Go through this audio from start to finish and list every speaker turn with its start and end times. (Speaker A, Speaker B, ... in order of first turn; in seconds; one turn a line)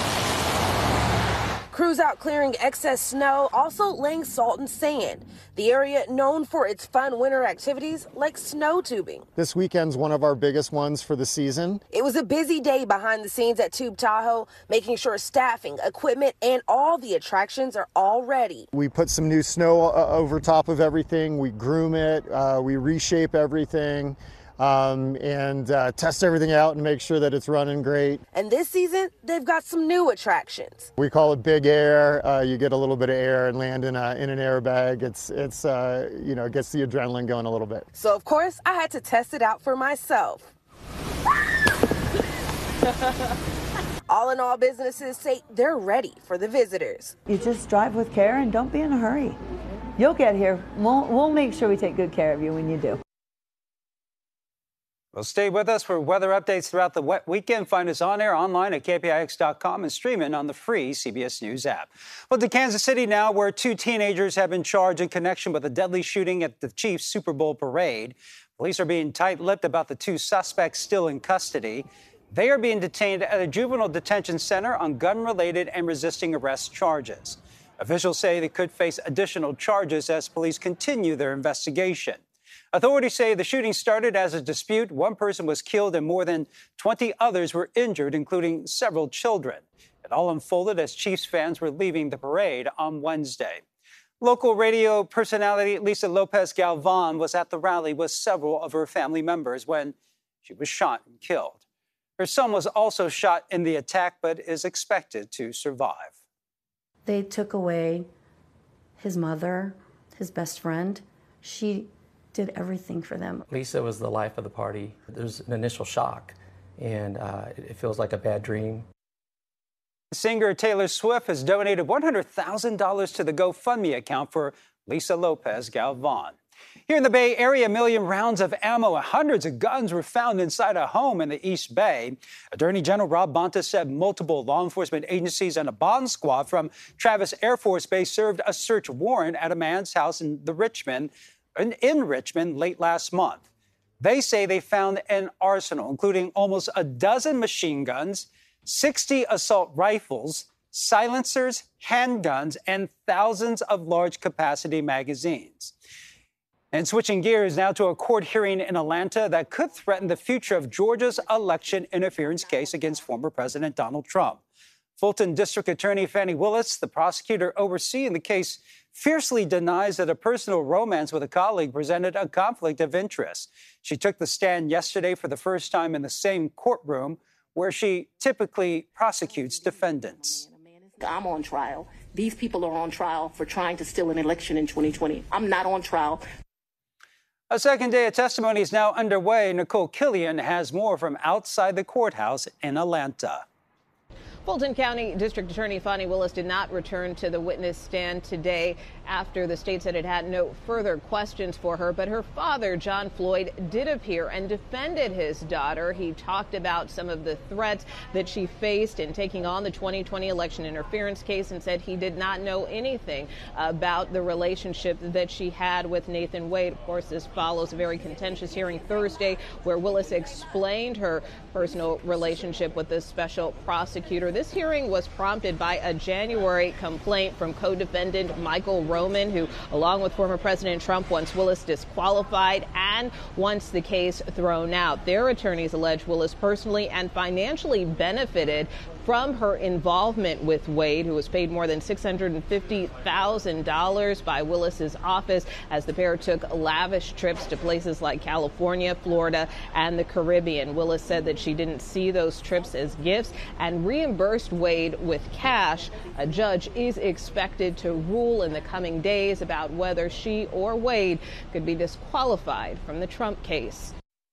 Speaker A: 1.7-9.2
Speaker B: 9.3-11.8
Speaker A: 11.9-18.7
Speaker B: 18.7-28.2
Speaker A: 28.3-30.9
Speaker B: 31.0-37.8
Speaker A: 37.9-40.5
Speaker A: 44.1-47.1
Speaker C: 47.3-49.4
Speaker C: 50.0-53.0
Speaker D: 55.1-82.2
Speaker D: 82.7-93.6
Speaker D: 94.2-101.6
Speaker D: 102.2-106.1
Speaker E: 107.0-108.1
Speaker E: 109.0-113.5
Speaker F: 113.5-118.8
Speaker D: 120.1-126.3
Speaker D: 126.9-143.4
Speaker D: 144.0-155.7
Speaker D: 156.7-164.4
Speaker D: 165.0-180.4
Speaker G: 179.9-186.2
Speaker D: 187.5-193.4
Speaker H: 194.4-263.9